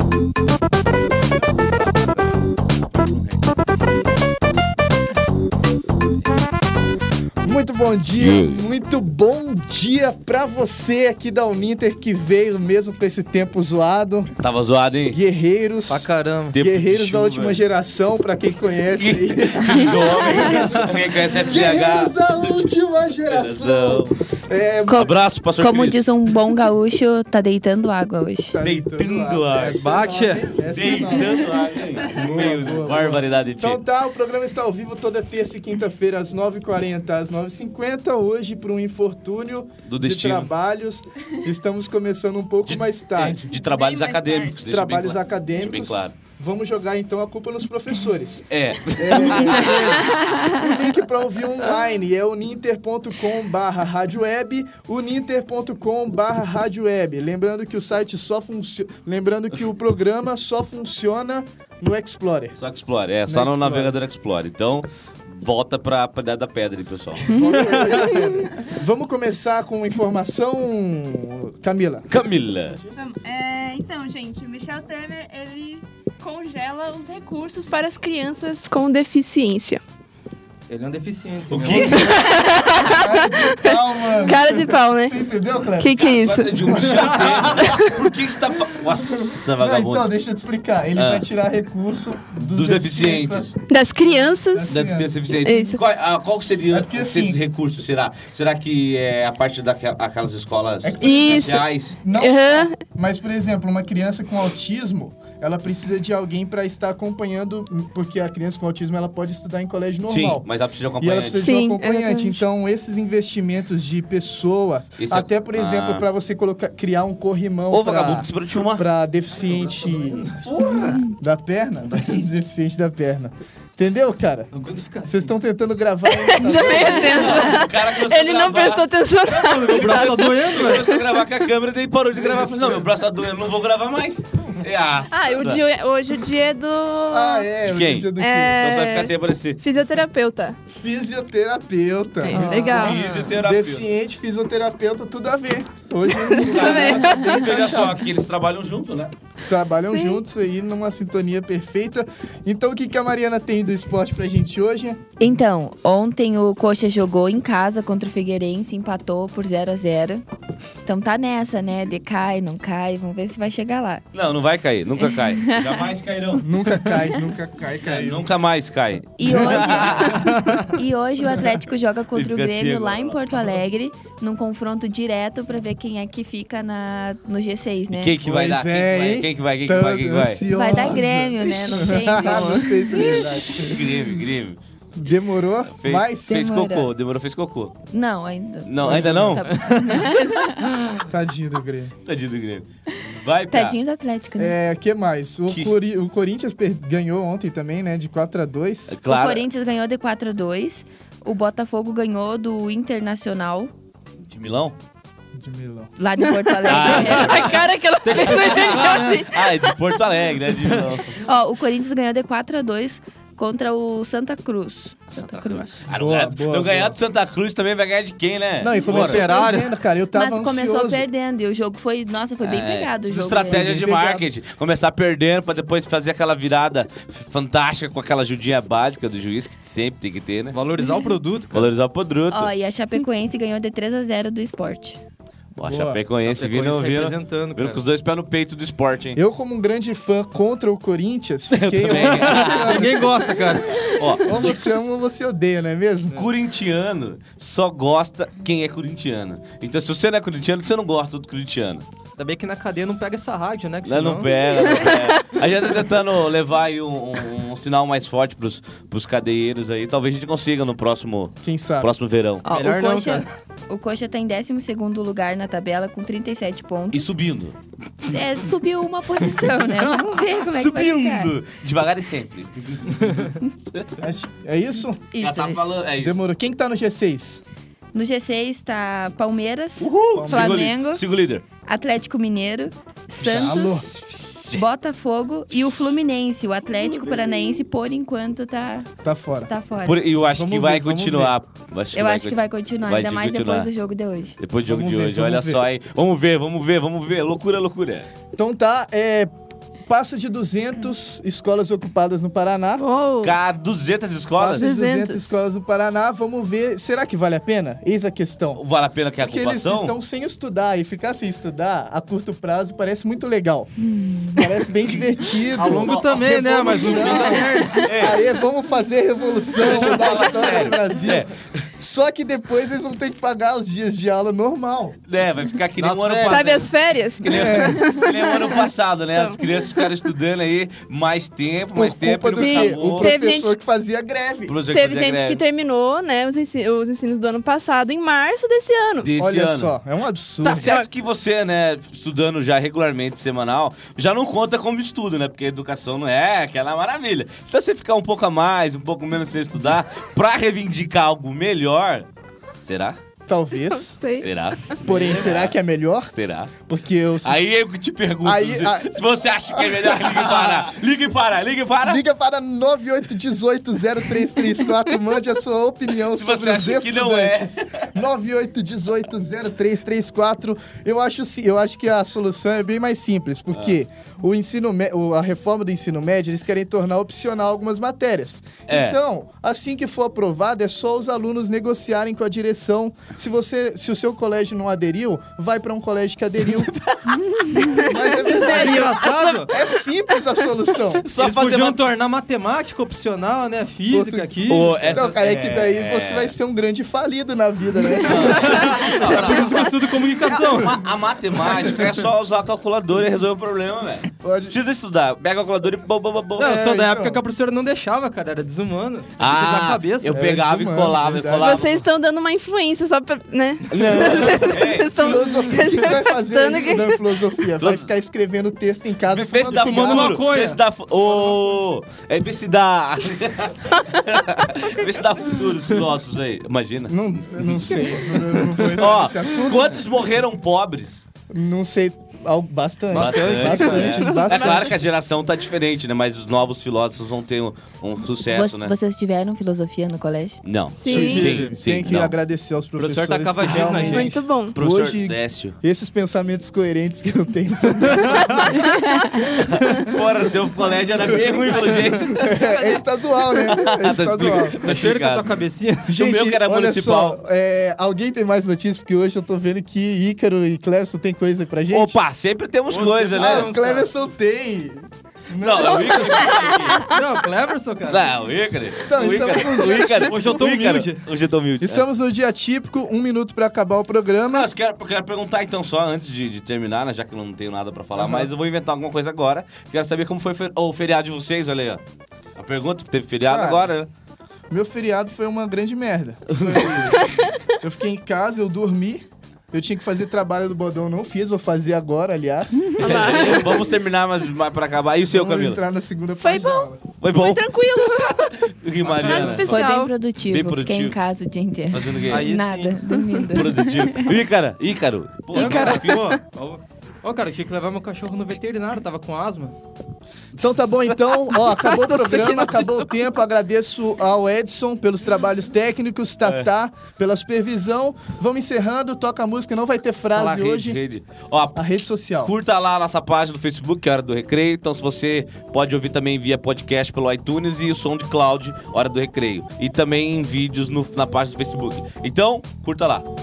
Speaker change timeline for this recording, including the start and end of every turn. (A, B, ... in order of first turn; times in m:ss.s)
0:01.3-0:03.5 A
0:07.4-0:14.3 B
0:08.2-0:08.6 A
0:14.4-0:15.2 A
0:15.1-0:25.1 B
0:15.9-0:16.6 C
0:16.5-0:17.6 A
0:19.0-0:22.8 A
0:23.3-0:24.2 A
0:24.9-0:28.6 D
0:25.0-0:26.3 A
0:28.5-0:43.4 B
0:28.6-0:29.9 A
0:29.6-0:30.5 C
0:30.7-0:33.8 A
0:39.9-0:40.5 A
0:42.7-0:46.2 A
0:43.6-0:44.5 E
0:44.6-1:02.6 B
0:48.5-0:50.2 A
1:02.6-1:07.6 A
1:03.3-1:04.0 B
1:07.2-1:13.1 B
1:07.6-1:07.9 C
1:12.1-1:12.8 A
1:13.0-1:19.8 E
1:20.7-1:22.2 C
1:21.5-1:22.2 A
1:21.9-1:25.2 E
1:22.8-1:26.0 B
1:25.8-1:26.6 E
1:26.0-1:30.1 A
1:26.6-1:27.9 B
1:28.8-1:33.6 B
1:31.0-1:31.3 A
1:32.4-1:33.5 A
1:33.7-1:34.8 E
1:34.5-1:35.2 B
1:34.7-1:42.0 A
1:35.4-1:35.8 E
1:36.7-1:37.4 B
1:40.8-1:50.5 B
1:41.0-1:42.8 E
1:50.1-1:51.5 A
1:51.0-2:00.3 B
1:51.4-1:52.4 E
1:55.0-1:56.1 A
1:57.7-1:58.8 A
1:59.4-2:01.0 C
2:00.5-2:01.0 A
2:01.1-2:04.5 B
2:04.5-2:05.3 C
2:05.0-2:07.6 B
2:06.1-2:11.0 E
2:06.7-2:08.9 A
2:09.3-2:11.0 C
2:09.8-2:15.6 A
2:15.1-2:17.5 E
2:17.1-2:18.6 B
2:17.6-2:19.6 A
2:18.2-2:20.6 E
2:20.7-2:28.0 B
2:22.2-2:23.1 E
2:22.7-2:23.9 A
2:26.3-2:27.4 E
2:26.5-2:29.1 A
2:29.5-2:35.0 B
2:29.9-2:30.2 E
2:35.2-2:40.2 D
2:40.8-2:44.2 D
2:44.1-2:46.5 A
2:45.0-2:45.9 D
2:46.4-2:48.3 B
2:47.8-2:50.4 A
2:49.2-2:58.2 D
2:49.2-2:49.8 B
2:50.4-2:50.6 C
2:52.1-2:53.2 A
2:57.9-3:00.4 A
2:58.2-3:04.0 B
3:00.5-3:03.2 D
3:01.5-3:04.6 A
3:05.0-3:06.6 B
3:05.7-3:07.8 A
3:06.3-3:06.9 D
3:07.9-3:10.7 D
3:08.7-3:09.5 A
3:08.9-3:09.4 B
3:11.1-3:11.9 B
3:12.0-3:13.8 A
3:13.5-3:14.6 D
3:14.4-3:19.0 B
3:18.9-3:19.4 A
3:19.1-3:23.7 D
3:24.3-3:24.8 A
3:25.3-3:25.9 B
3:26.0-3:27.6 D
3:26.7-3:27.6 A
3:26.8-3:29.7 E
3:26.9-3:27.3 C
3:28.0-3:29.3 C
3:28.2-3:31.2 A
3:31.2-3:35.7 D
3:35.3-3:39.2 A
3:35.9-3:37.0 B
3:38.6-3:41.0 B
3:38.9-3:39.7 C
3:40.1-3:43.7 D
3:42.4-3:50.6 A
3:43.2-3:44.3 B
3:50.5-3:51.7 C
3:51.5-3:52.5 A
3:52.3-3:55.0 D
3:55.6-3:59.2 A
3:55.6-3:56.0 B
3:56.2-3:57.8 C
3:59.2-4:03.3 B
4:01.5-4:02.9 A
4:01.9-4:03.9 C
4:04.0-4:04.3 A
4:04.2-4:06.3 B
4:06.2-4:11.8 A
4:12.2-4:14.3 C
4:13.8-4:22.4 A
4:21.4-4:21.9 B
4:22.4-4:27.2 D
4:22.5-4:23.3 C
4:26.9-4:27.6 A
4:28.1-4:31.3 D
4:30.4-4:33.9 A
4:34.0-4:35.0 B
4:35.1-4:35.8 D
4:35.2-4:36.2 A
4:36.0-4:37.4 B
4:37.9-4:41.0 D
4:39.8-4:41.4 A
4:40.1-4:40.7 B
4:41.6-4:43.9 D
4:43.2-4:43.9 B
4:44.0-4:44.6 A
4:44.5-4:48.9 D
4:46.7-4:47.6 A
4:49.0-4:49.5 B
4:49.5-4:50.0 D
4:49.8-4:53.7 A
4:50.3-4:51.4 B
4:51.9-4:54.4 D
4:54.4-4:58.1 A
4:54.7-4:55.7 B
4:58.4-4:59.3 B
4:59.9-5:02.8 B
5:02.8-5:03.3 E
5:03.2-5:04.6 A
5:04.4-5:08.6 B
5:04.6-5:05.3 E
5:08.6-5:10.0 A
5:09.2-5:13.7 B
5:14.3-5:25.0 B
5:15.6-5:18.2 A
5:15.6-5:17.9 C
5:19.6-5:21.3 A
5:25.1-5:26.7 A
5:25.8-5:26.6 C
5:26.2-5:29.9 E
5:27.2-5:33.2 A
5:27.3-5:27.9 B
5:31.7-5:34.6 B
5:32.4-5:33.6 E
5:34.5-5:35.4 A
5:34.7-5:39.1 E
5:39.0-5:39.7 A
5:39.2-5:40.7 B
5:40.4-5:52.1 A
5:40.6-5:40.8 E
5:52.6-5:53.0 A
5:53.3-5:54.2 B
5:53.7-5:54.3 E
5:54.2-5:55.6 A
5:54.8-5:57.5 B
5:56.1-5:56.5 A
5:57.2-6:02.0 A
5:58.2-6:00.6 B
6:01.8-6:26.7 B
6:06.1-6:07.8 A
6:13.5-6:13.8 A
6:18.7-6:19.0 A
6:27.6-6:30.2 E
6:27.7-6:31.1 B
6:28.4-6:29.5 C
6:31.0-6:31.8 A
6:31.2-6:35.0 C
6:33.9-6:38.4 B
6:34.5-6:36.4 A
6:38.0-6:39.7 A
6:38.2-6:40.8 C
6:40.3-6:46.5 A
6:44.2-6:44.6 B
6:46.4-6:50.2 C
6:46.4-6:47.2 B
6:49.2-6:51.8 A
6:50.1-6:51.6 B
6:51.4-6:57.1 E
6:53.7-6:55.2 A
6:55.0-7:00.3 B
6:57.6-6:57.9 A
6:59.1-7:07.5 A
6:59.5-7:01.4 C
7:06.9-7:09.8 B
7:07.6-7:08.2 C
7:08.8-7:11.0 A
7:11.3-7:15.0 B
7:12.9-7:14.6 C
7:12.9-7:18.7 A
7:14.0-7:14.4 E
7:18.3-7:20.4 D
7:20.4-7:22.2 A
7:20.8-7:21.3 E
7:20.9-7:28.8 B
7:20.9-7:21.6 C
7:22.8-7:24.2 C
7:23.6-7:24.6 E
7:24.6-7:25.6 A
7:28.0-7:29.1 C
7:29.3-7:32.3 A
7:31.6-7:32.8 E
7:32.2-7:34.6 B
7:33.5-7:35.3 A
7:34.6-7:35.9 C
7:35.9-7:42.0 B
7:35.9-7:37.2 A
7:41.7-7:43.6 A
7:42.7-7:43.9 C
7:43.1-7:46.4 B
7:45.4-7:46.9 A
7:46.8-7:48.2 C
7:47.9-7:51.9 A
7:48.9-7:50.3 B
7:50.0-7:51.1 C
7:51.6-7:54.5 B
7:54.3-8:01.8 A
7:57.9-7:58.3 B
8:02.4-8:03.9 A
8:03.3-8:03.7 B
8:04.5-8:12.7 B
8:06.4-8:07.1 A
8:12.8-8:13.7 E
8:12.8-8:15.6 A
8:15.1-8:16.8 B
8:16.2-8:18.4 E
8:17.0-8:17.5 A
8:18.3-8:19.6 A
8:18.8-8:19.4 C
8:19.0-8:19.9 E
8:19.4-8:24.2 D
8:20.3-8:21.0 A
8:21.7-8:22.3 A
8:22.1-8:22.8 C
8:22.9-8:23.3 E
8:23.3-8:26.2 A
8:25.3-8:26.2 E
8:25.3-8:29.6 C
8:30.4-8:40.8 B
8:30.4-8:31.2 A
8:31.7-8:32.9 E
8:36.2-8:36.5 A
8:40.1-8:53.1 A
8:41.6-8:42.3 B